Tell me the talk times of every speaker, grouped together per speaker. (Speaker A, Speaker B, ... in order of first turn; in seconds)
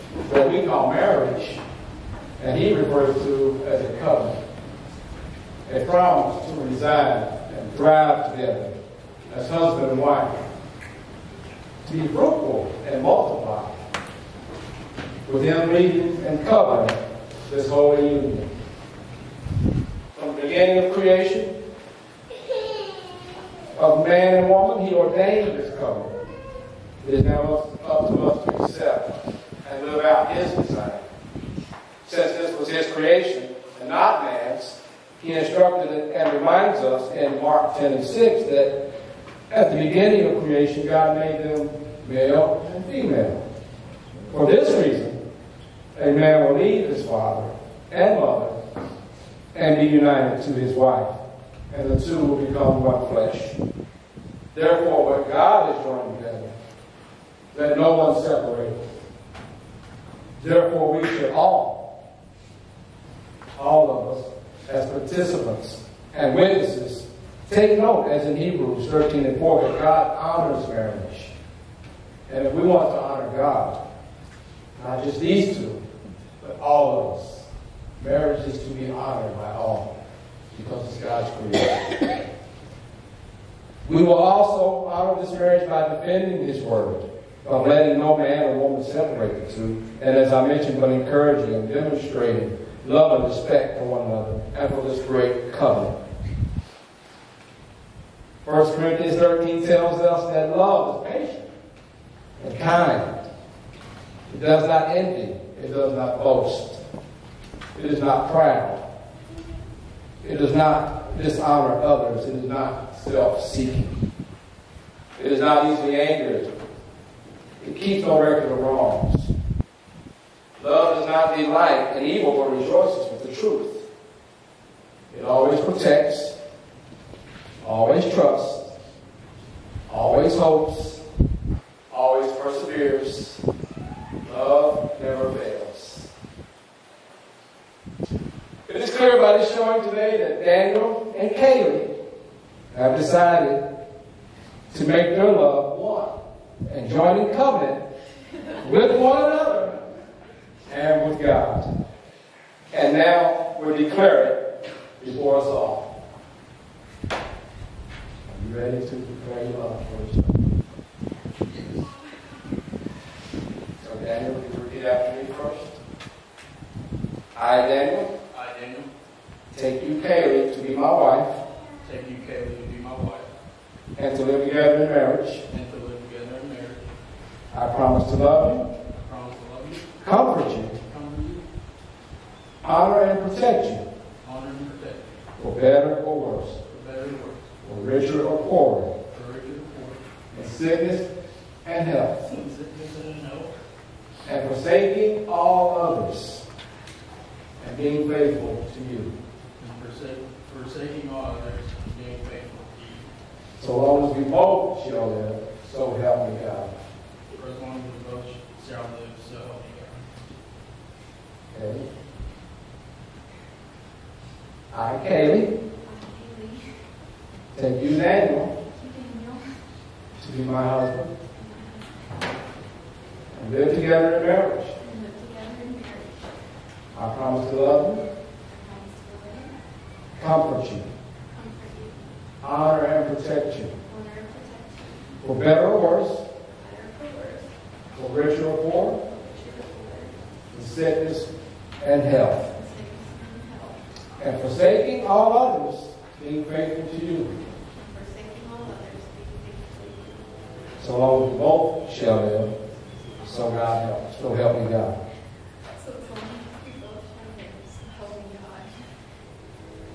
Speaker A: 0.2-1.6, 2.4-4.4, 5.7-8.8, 9.3-10.4, 11.8-13.8, 15.2-18.5, 20.1-21.6, 23.7-26.2, 27.0-31.1, 32.0-38.9, 39.5-43.4, 44.3-45.2, 45.9-48.6, 49.5-51.2, 51.7-53.6, 54.5-56.5, 57.5-58.8, 60.4-62.0, 63.6-71.3, 72.3-73.8, 74.8-75.8, 76.4-80.0, 80.5-82.0, 83.8-96.0, 98.4-101.5, 102.4-103.2, 104.3-106.8, 107.8-108.8, 110.2-114.0, 115.2-116.5, 117.6-119.3, 120.6-123.9, 125.1-126.4, 127.6-128.8, 129.9-131.0, 131.9-133.4, 134.2-136.1, 138.7-141.9, 142.7-143.7, 144.7-147.9, 148.5-149.8, 150.7-151.7, 152.7-155.9, 158.3-160.4, 163.8-165.8, 167.3-168.1, 169.5-171.4, 173.9-175.4, 177.5-178.7, 180.0-180.8, 182.6-183.9, 185.4-186.6, 187.6-189.0, 190.3-191.1, 191.6-192.3, 194.2-196.4, 197.6-199.1, 203.6-206.8, 211.5-211.9, 214.7-215.6, 217.5-218.6, 220.2-221.1, 223.3-224.8, 226.9-228.1, 230.2-230.9, 232.4-233.8, 235.2-236.3, 237.9-239.0, 240.5-242.5, 244.2-247.4, 250.8-252.6, 253.2-255.0
Speaker B: 168.3-168.9, 171.8-173.3, 175.5-176.9, 178.9-179.9, 180.8-181.4, 184.2-185.0, 186.7-187.4, 189.1-190.0, 192.2-193.5, 199.6-203.1, 207.3-210.0
Speaker C: 215.8-216.8, 218.7-219.5, 221.4-221.9, 224.8-226.3, 228.5-229.6, 231.3-232.0, 233.8-235.2, 236.5-237.5, 239.1-240.2, 242.5-243.8, 247.7-250.5, 255.7-258.8